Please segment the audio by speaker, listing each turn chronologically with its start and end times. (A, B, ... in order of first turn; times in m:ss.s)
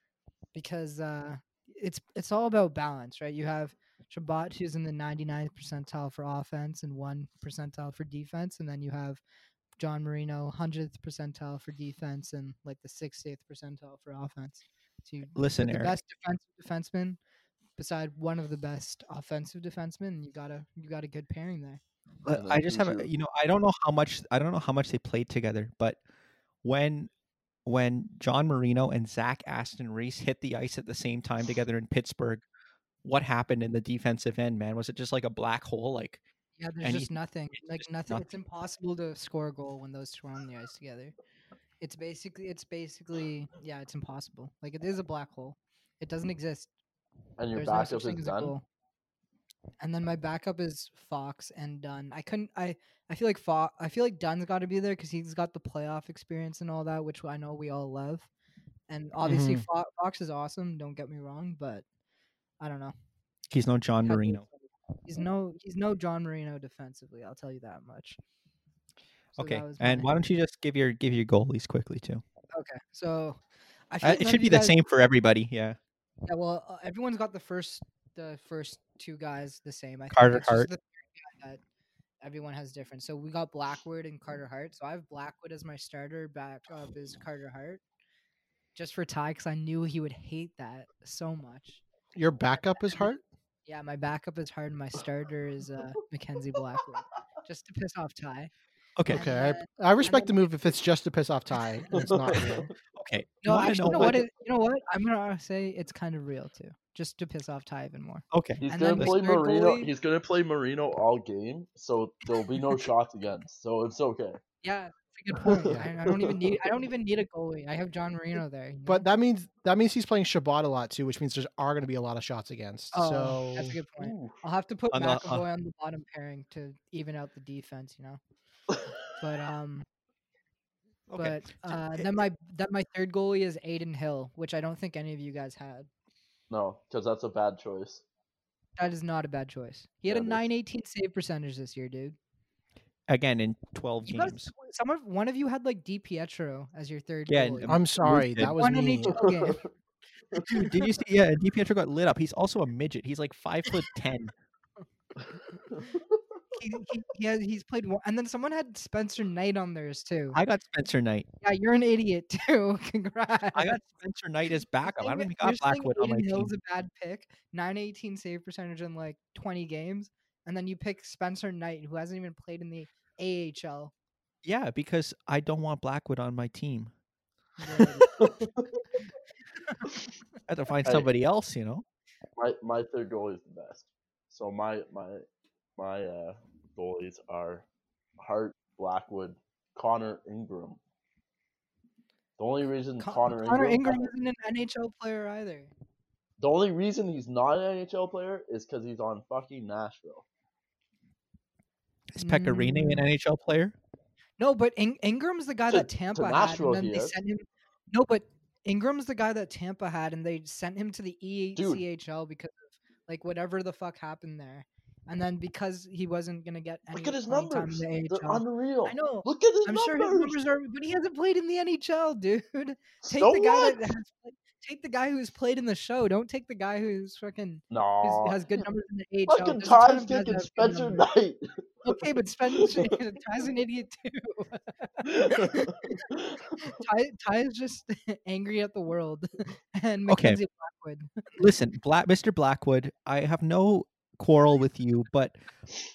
0:00.5-0:09.2 A
0:09.8-0:17.2 A
0:15.4-0:16.0 B
0:17.8-0:21.8 A
0:22.2-0:26.0 B
0:22.3-0:23.1 C
0:26.6-0:27.1 B
0:27.7-0:32.4 B
0:33.0-0:36.2 B
0:36.6-0:41.1 A
0:36.8-0:38.3 B
0:41.8-0:46.7 A
0:47.4-0:48.6 C
0:47.5-0:48.6 A
0:49.8-0:58.3 A
0:58.9-1:01.8 A
0:59.2-0:59.7 D
1:02.6-1:02.9 A
1:03.5-1:04.4 B
1:04.0-1:08.2 A
1:09.4-1:12.2 B
1:09.4-1:10.1 A
1:12.5-1:13.4 A
1:13.9-1:14.8 A
1:14.0-1:15.8 B
1:16.3-1:21.6 A
1:20.1-1:20.7 B
1:22.2-1:27.8 A
1:28.8-1:31.8 A
1:32.2-1:33.2 D
1:32.5-1:38.5 A
1:39.0-1:39.2 B
1:39.1-1:42.7 D
1:39.1-1:40.4 A
1:42.0-1:42.7 C
1:43.0-1:44.2 B
1:43.4-1:49.9 A
1:48.3-1:49.2 B
1:48.6-1:54.4 C
1:54.6-1:59.1 A
1:55.5-1:56.4 C
1:55.7-1:55.9 D
1:58.9-2:03.8 D
2:02.9-2:08.2 A
2:04.0-2:04.4 C
2:04.9-2:05.4 B
2:09.2-2:09.9 A
2:11.1-2:12.1 B
2:11.2-2:15.9 A
2:16.5-2:18.0 C
2:18.8-2:22.2 A
2:20.1-2:20.4 C
2:23.1-2:24.5 B
2:24.0-2:27.7 A
2:27.3-2:28.6 B
2:27.7-2:29.2 D
2:28.4-2:29.6 A
2:29.2-2:29.7 C
2:30.3-2:34.3 B
2:30.6-2:30.9 A
2:35.7-2:36.2 C
2:36.6-2:40.4 A
2:40.3-2:41.3 B
2:41.4-2:43.8 A
2:43.5-2:46.5 B
2:44.9-2:53.9 A
2:54.4-2:56.9 B
2:57.6-2:58.1 A
2:58.2-2:58.8 C
3:00.5-3:01.8 B
3:02.4-3:05.2 C
3:05.8-3:07.6 C
3:08.2-3:10.8 C
3:12.4-3:14.1 C
3:13.0-3:15.7 A
3:16.4-3:20.2 C
3:22.2-3:23.8 B
3:22.2-3:23.1 A
3:24.4-3:51.0 A
3:25.7-3:27.2 C
3:31.6-3:31.8 C
3:36.9-3:40.4 C
3:43.0-3:43.8 C
3:47.7-3:48.4 C
3:49.3-3:52.9 C
3:51.8-3:56.0 A
3:55.0-3:56.7 C
3:56.6-4:01.1 A
4:00.1-4:00.4 B
4:01.4-4:05.4 B